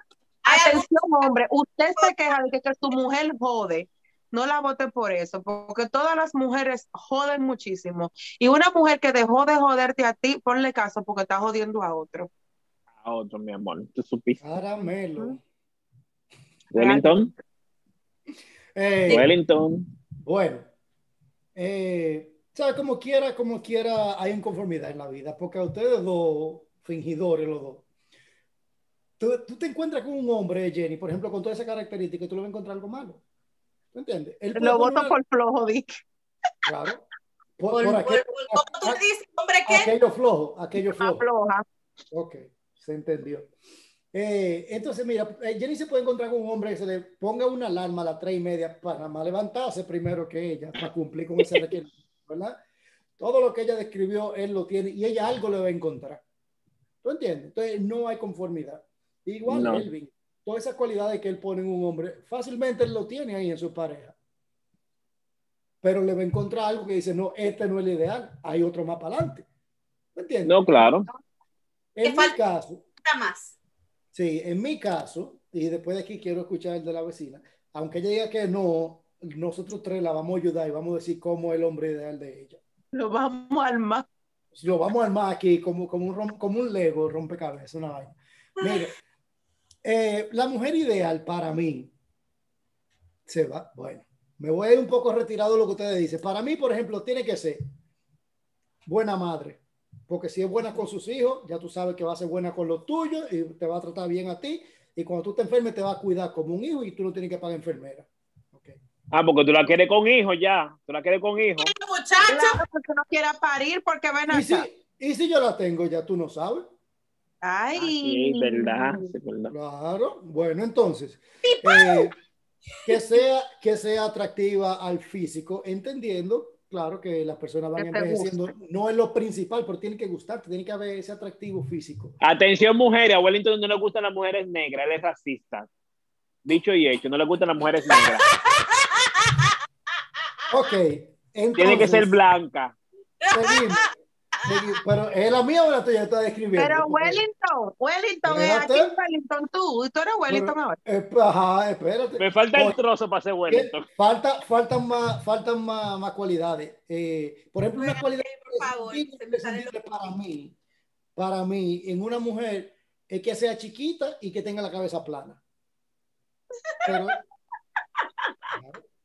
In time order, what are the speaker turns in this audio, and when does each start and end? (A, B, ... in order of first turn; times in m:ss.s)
0:00.4-0:00.9 A
0:00.5-0:12.3 B
0:13.0-0:14.4 C
0:14.4-0:15.4 D
0:14.8-0:15.4 B
0:16.7-0:17.3 C
0:16.8-0:17.2 B
0:18.8-0:19.3 D
0:19.1-0:19.9 C
0:20.2-0:20.7 D
0:21.6-0:27.8 D
0:29.2-0:33.2 D
0:33.9-0:35.2 D
0:34.6-0:36.0 B
0:36.6-0:37.0 D
0:37.6-0:39.0 D
0:37.7-0:39.9 A
0:39.7-0:41.2 D
0:40.8-0:41.6 B
0:42.1-0:43.5 D
0:44.1-0:52.6 D
0:53.2-0:56.2 D
0:57.0-1:04.2 D
0:59.5-0:59.9 C
1:05.8-1:09.5 D
1:10.2-1:10.8 D
1:10.4-1:11.1 C
1:12.0-1:12.8 D
1:12.0-1:12.4 A
1:13.0-1:13.6 A
1:14.1-1:22.6 D
1:22.9-1:24.0 B
1:24.5-1:28.9 D
1:29.8-1:31.9 D
1:33.3-1:37.7 D
1:38.9-1:48.8 D
1:49.1-1:51.7 C
1:51.6-1:52.6 A
1:52.3-1:54.7 B
1:54.3-1:56.7 D
1:57.4-1:59.1 B
1:57.8-1:59.5 C
1:59.5-2:02.2 D
2:01.4-2:02.2 A
2:02.8-2:12.2 D
2:07.8-2:08.5 B
2:12.2-2:15.7 C
2:16.4-2:18.3 C
2:17.9-2:19.5 A
2:20.5-2:22.2 D
2:21.6-2:22.8 C
2:23.2-2:23.8 A
2:23.3-2:23.9 D
2:24.4-2:24.8 A
2:24.4-2:27.2 D
2:26.5-2:30.8 B
2:28.3-2:28.9 D
2:30.3-2:32.8 D
2:32.2-2:33.9 C
2:33.5-2:40.6 D
2:37.8-2:39.7 A
2:41.2-2:45.4 D
2:46.8-2:47.2 D